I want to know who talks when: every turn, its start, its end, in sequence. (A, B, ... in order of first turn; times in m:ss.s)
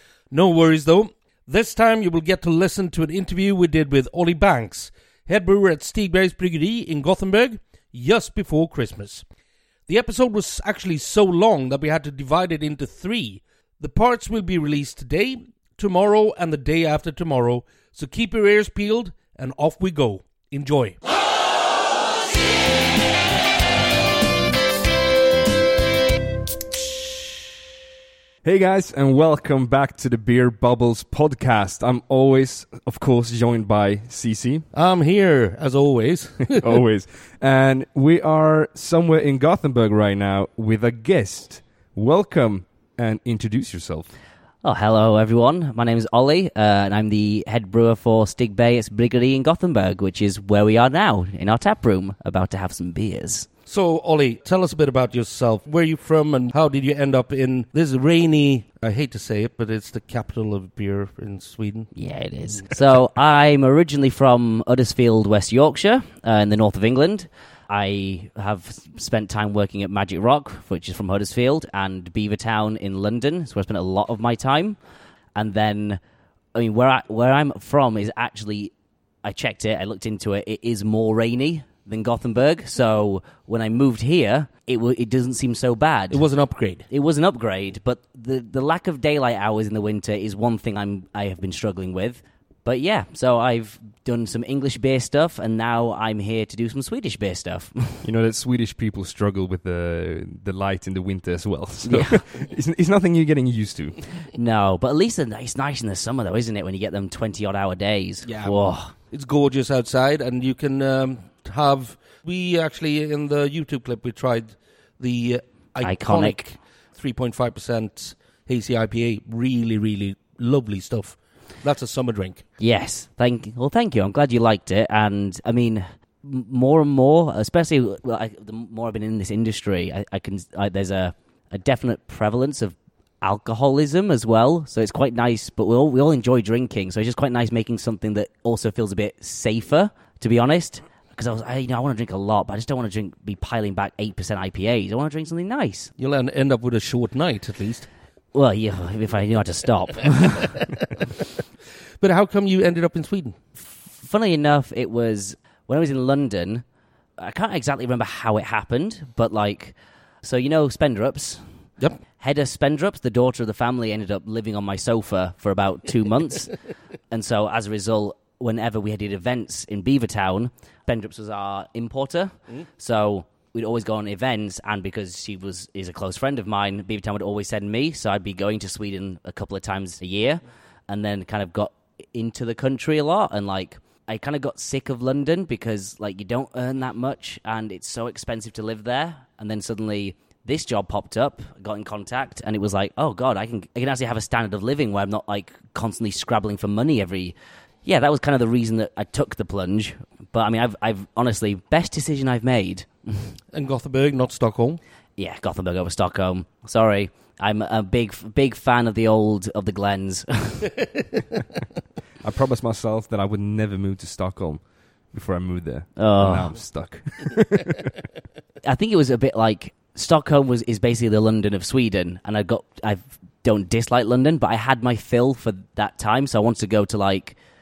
0:00.3-0:09.2 A
0:09.9-0:21.0 A
0:28.4-0:34.7 B
0:34.7-0:36.8 A
0:36.5-0:44.1 B
0:44.6-0:53.5 C
0:53.7-1:01.9 A
1:02.0-1:14.8 C
1:15.4-1:16.0 C
1:16.6-1:18.7 C
1:19.2-1:26.2 C
1:26.1-1:26.9 A
1:26.9-1:38.1 C
1:38.0-1:44.2 B
1:41.8-1:42.2 C
1:44.3-1:48.9 C
1:48.2-2:02.4 A
1:55.8-1:56.4 C
2:02.6-2:25.9 C
2:26.0-2:27.9 A
2:28.3-2:30.6 C
2:32.0-2:33.4 A
2:33.6-2:36.6 C
2:37.2-2:41.5 C
2:42.2-2:46.6 C
2:47.1-3:23.4 C
3:23.5-3:24.8 A
3:25.2-3:30.7 C
3:32.2-3:38.0 B
3:36.0-3:36.6 C
3:38.7-3:47.4 C